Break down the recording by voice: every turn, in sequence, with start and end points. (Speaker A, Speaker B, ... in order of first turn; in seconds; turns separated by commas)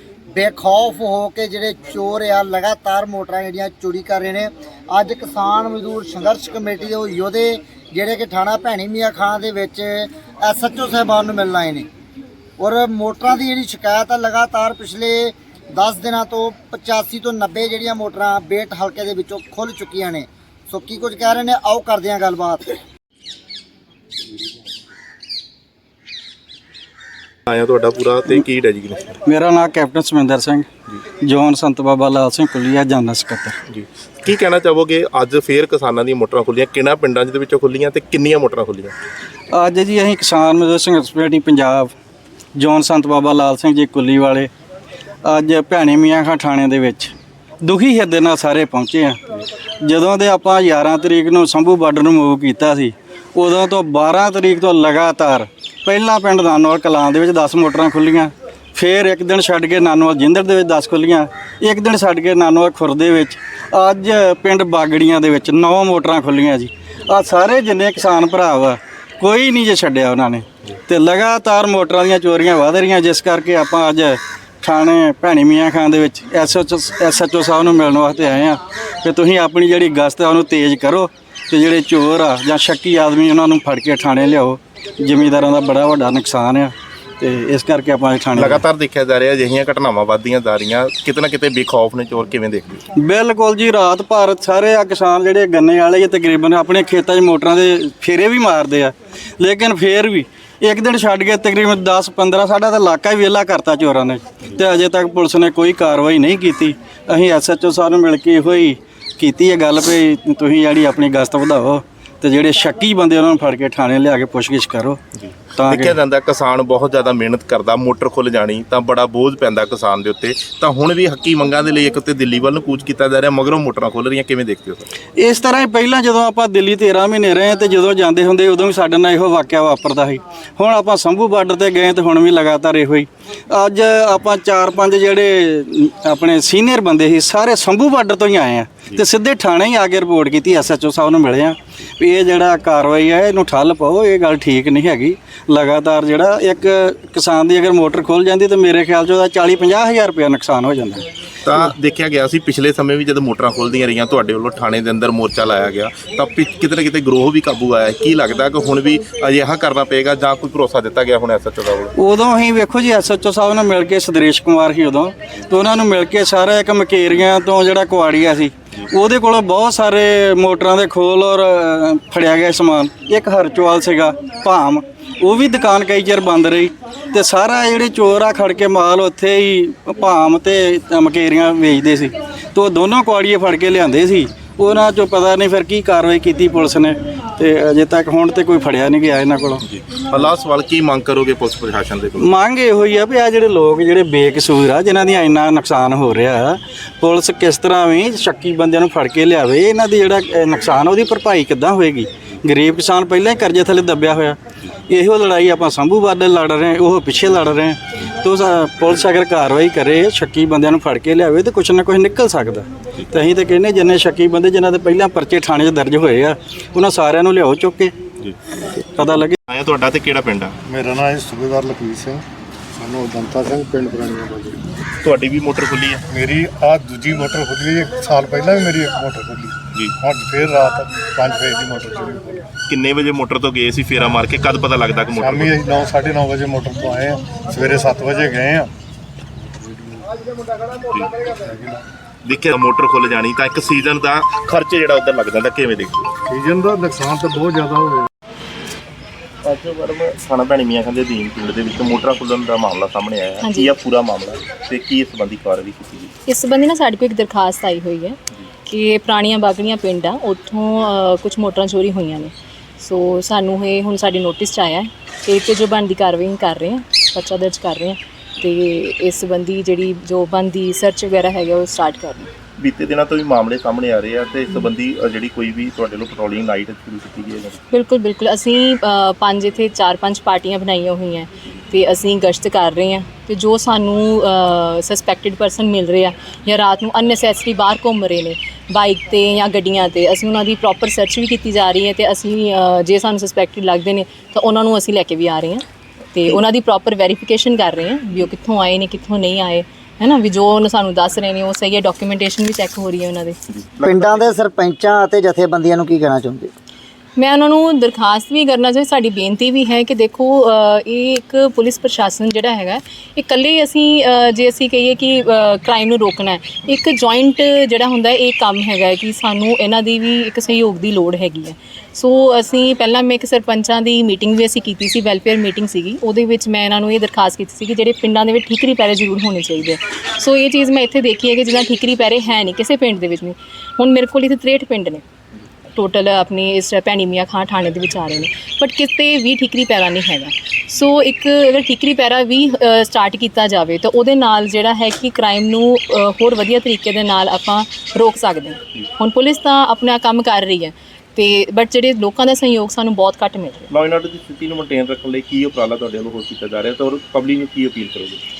Speaker A: 0.3-11.8, Speaker A: 12.6-22.7, Speaker B: 27.5-29.1, Speaker C: 29.2-30.7, Speaker C: 31.2-33.5, Speaker B: 33.7-38.9, Speaker C: 39.5-41.9, Speaker C: 42.5-44.5, Speaker C: 45.2-49.2, Speaker C: 49.8-88.6, Speaker B: 88.4-92.8, Speaker C: 93.0-115.0, Speaker B: 115.2-124.8, Speaker C: 115.6-115.9, Speaker C: 125.2-151.1, Speaker B: 151.4-161.9, Speaker C: 162.0-189.6, Speaker B: 189.6-192.2, Speaker C: 192.2-204.4, Speaker C: 204.9-217.9, Speaker C: 218.9-219.3, Speaker B: 219.5-220.5, Speaker D: 220.6-222.2, Speaker D: 222.8-224.7, Speaker B: 225.0-226.0, Speaker D: 226.1-232.4, Speaker B: 232.7-235.5, Speaker D: 235.2-238.7, Speaker D: 239.6-240.1, Speaker B: 240.8-241.3, Speaker D: 241.3-241.8, Speaker B: 242.2-246.1, Speaker D: 246.2-248.1, Speaker B: 249.4-256.1, Speaker E: 253.4-253.7, Speaker E: 256.2-272.3, Speaker B: 272.6-277.6, Speaker E: 277.7-303.4, Speaker B: 303.6-304.2, Speaker A: 303.8-306.5, Speaker E: 307.1-335.0, Speaker E: 335.7-353.7, Speaker B: 353.7-358.2